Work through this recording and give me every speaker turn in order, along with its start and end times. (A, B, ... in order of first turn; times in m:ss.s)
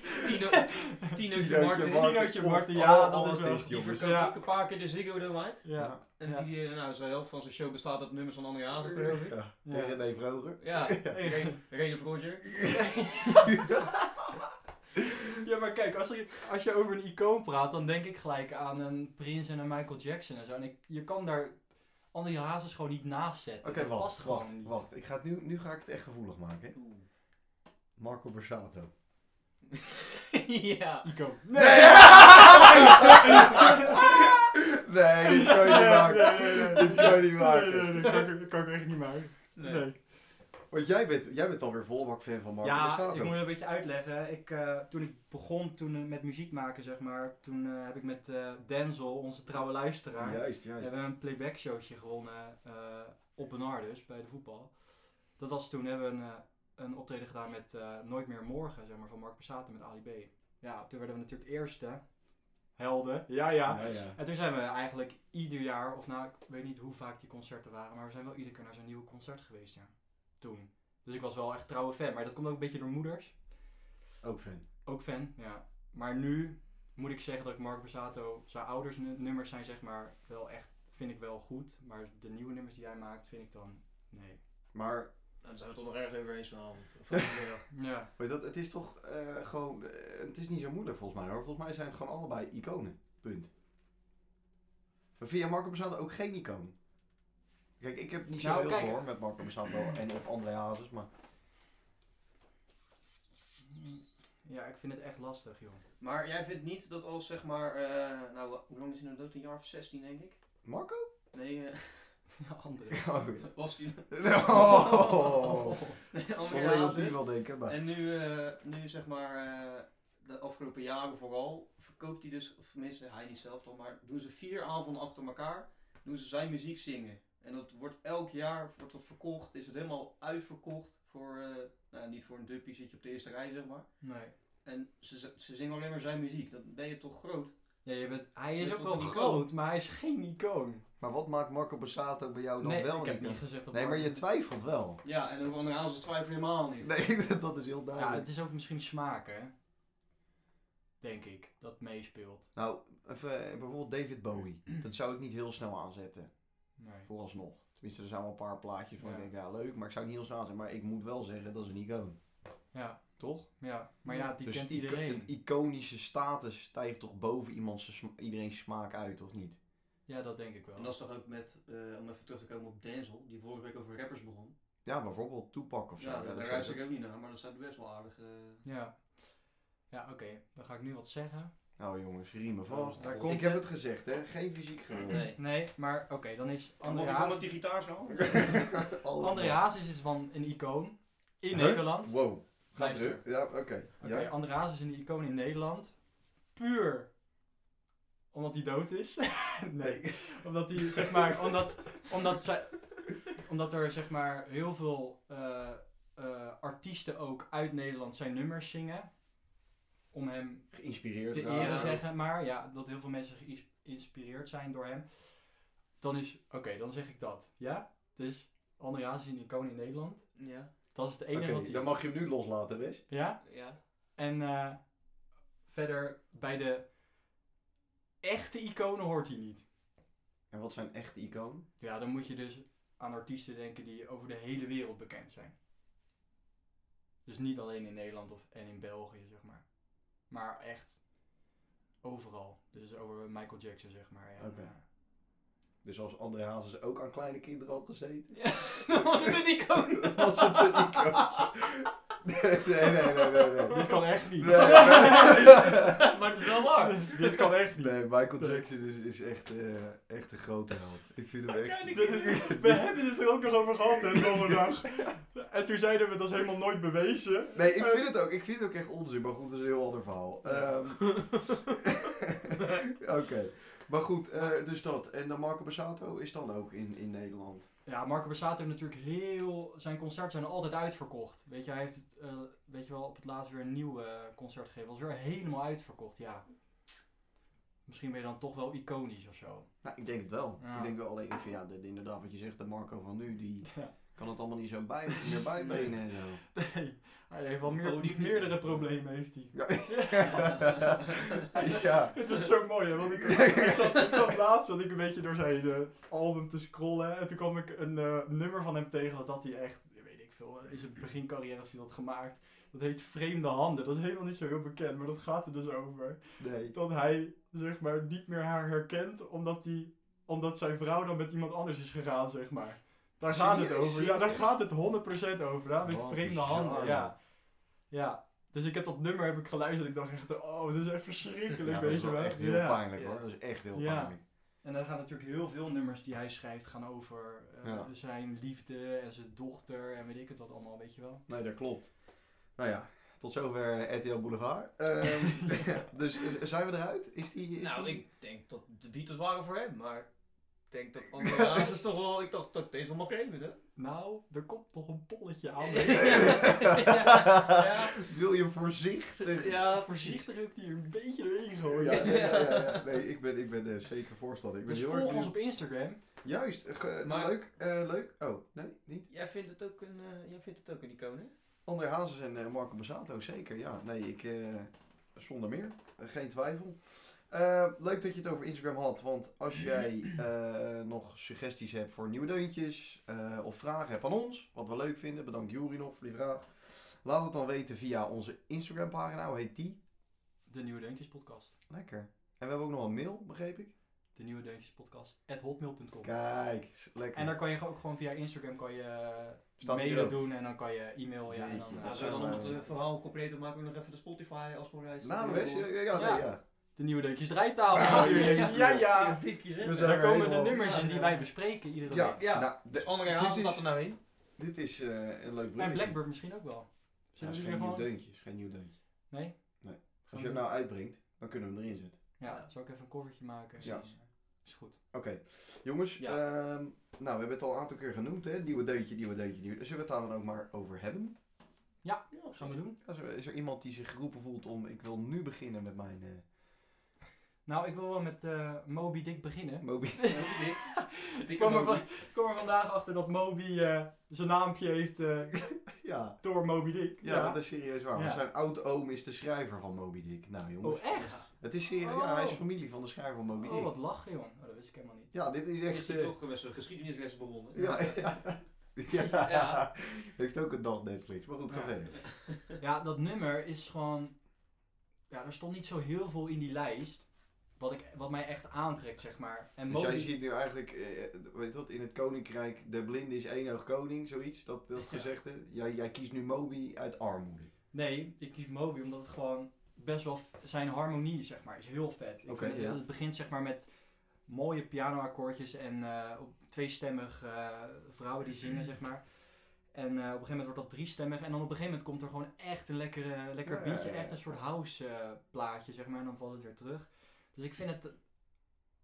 0:00.2-0:02.2 A
0:00.5-0:01.2 B
0:01.3-0:04.1 C
0:01.8-0:04.4 B
0:03.7-0:09.4 A
0:05.6-0:06.5 B
0:08.9-0:11.2 C
0:09.6-0:10.0 B
0:10.6-0:13.5 A
0:11.1-0:11.6 B
0:13.2-0:13.6 B
0:15.4-0:24.8 B
0:23.6-0:26.8 C
0:26.7-0:27.1 A
0:28.0-0:28.9 C
0:29.7-0:31.1 A
0:31.0-0:34.2 B
0:31.5-0:38.2 C
0:35.4-0:40.0 B
0:39.6-0:39.9 A
0:40.7-0:43.4 C
0:42.6-1:02.1 B
0:50.2-0:51.0 C
1:02.7-1:13.4 B
1:03.7-1:04.2 C
1:14.2-1:14.6 C
1:14.9-1:24.4 B
1:24.7-1:25.1 C
1:25.4-1:27.7 A
1:27.7-1:28.1 B
1:28.2-1:33.5 C
1:35.2-1:36.8 C
1:37.8-1:41.1 C
1:38.4-1:39.1 B
1:43.7-1:45.8 B
1:46.0-1:50.4 A
1:50.6-1:51.1 C
1:51.3-1:52.2 A
1:52.4-1:53.0 B
1:52.9-1:55.8 C
1:53.4-2:14.1 A
1:54.9-1:56.0 B
1:56.4-1:57.8 C
2:14.0-2:14.3 B
2:14.6-2:17.5 A
2:17.8-2:20.9 B
2:18.6-2:19.5 A
2:21.0-2:25.0 C
2:22.6-2:24.2 B
2:25.0-2:26.9 A
2:26.8-2:28.3 C
2:28.0-2:29.5 B
2:31.0-2:32.5 B
2:32.6-2:42.2 C
2:36.8-2:37.1 B
2:39.0-2:39.3 B
2:42.7-2:45.3 B
2:43.2-2:43.7 C
2:44.4-2:49.6 C
2:50.1-2:51.0 B
2:50.8-2:54.5 A
2:54.8-2:56.8 C
2:56.0-2:58.6 A
2:58.6-3:01.5 B
3:01.8-3:05.2 C
3:02.7-3:03.4 A
3:03.0-3:03.6 B
3:05.1-3:05.4 A
3:05.4-3:07.5 B
3:06.8-3:08.8 A
3:08.4-3:09.6 C
3:09.2-3:17.1 B
3:11.5-3:14.3 C
3:18.3-3:29.2 B
3:19.8-3:21.4 C
3:30.1-3:42.0 B
3:30.7-3:32.0 C
3:31.5-3:32.0 A
3:40.4-3:40.7 A
3:41.3-3:43.0 C
3:43.1-3:46.9 B
3:43.4-3:43.8 A
3:48.2-3:49.6 B
3:50.5-3:51.7 C
3:51.8-3:55.5 B
3:57.2-4:01.4 B
4:02.0-4:04.8 B
4:04.4-4:04.7 C
4:05.8-4:09.0 C
4:08.3-4:11.5 A
4:10.0-4:16.0 C
4:13.0-4:17.5 A
4:13.7-4:15.8 B
4:16.8-4:18.6 B
4:17.8-4:23.0 C
4:21.5-4:22.6 A
4:21.9-4:28.1 B
4:24.1-4:24.8 C
4:27.5-4:37.7 C
4:30.4-4:30.7 B
4:31.0-4:31.6 A
4:37.8-4:47.0 B
4:47.9-4:49.8 B
4:49.8-4:56.4 C
4:50.6-4:51.0 B
4:53.7-4:54.2 B
4:55.6-4:55.9 A
4:56.6-5:01.0 B
4:57.6-4:58.9 A
4:59.5-5:02.6 C
5:02.1-5:32.9 B
5:03.3-5:04.2 C
5:16.4-5:16.8 C
5:23.3-5:24.6 C
5:25.8-5:27.1 C
5:31.6-5:34.2 C
5:32.9-5:33.2 A
5:33.7-5:41.2 B
5:37.6-5:37.9 C
5:41.3-5:48.0 C
5:45.4-5:45.7 B
5:47.6-5:50.1 A
5:50.7-5:53.6 A
5:51.3-5:51.7 C
5:53.8-5:56.8 B
5:55.6-5:58.1 A
5:55.9-5:59.6 C
5:59.2-6:00.3 A
5:59.7-6:02.3 B
6:01.7-6:05.4 C
6:01.9-6:03.0 A
6:04.7-6:06.0 B
6:06.2-6:09.1 C
6:07.0-6:07.4 A
6:09.1-6:11.3 A
6:11.7-6:29.8 C
6:30.5-6:31.5 B
6:31.7-6:33.7 C
6:34.1-6:36.1 B
6:36.0-6:37.3 C
6:37.1-6:42.8 B
6:39.6-6:40.3 C
6:41.3-6:42.6 C
6:41.8-6:45.7 A
6:45.0-6:46.4 C
6:45.9-6:52.2 B
6:47.7-6:48.9 C
6:47.8-6:51.4 A
6:49.6-6:50.6 C
6:51.9-6:56.0 C
6:51.9-6:54.0 A
6:55.6-6:57.9 B
6:57.2-6:58.8 C
6:59.1-7:00.4 B
6:59.6-7:02.0 C
7:02.2-7:04.8 B
7:02.2-7:02.5 A
7:03.6-7:03.9 A
7:03.6-7:03.9 C
7:04.9-7:11.2 C
7:11.8-7:12.8 B
7:12.1-7:12.6 A
7:12.5-7:16.3 C
7:17.4-7:28.2 B
7:19.6-7:20.2 C
7:20.1-7:21.9 A
7:25.8-7:33.7 C
7:30.6-7:32.4 B
7:30.9-7:31.3 A
7:33.4-7:35.2 B
7:35.1-7:36.1 C
7:35.7-7:38.4 A
7:37.6-7:42.0 C
7:37.6-7:37.9 B
7:38.9-7:39.6 A
7:41.5-7:44.4 B
7:42.0-7:42.4 A
7:45.1-7:50.1 B
7:49.7-7:57.5 C
7:57.7-8:18.0 B
8:02.3-8:02.8 C
8:13.4-8:14.4 C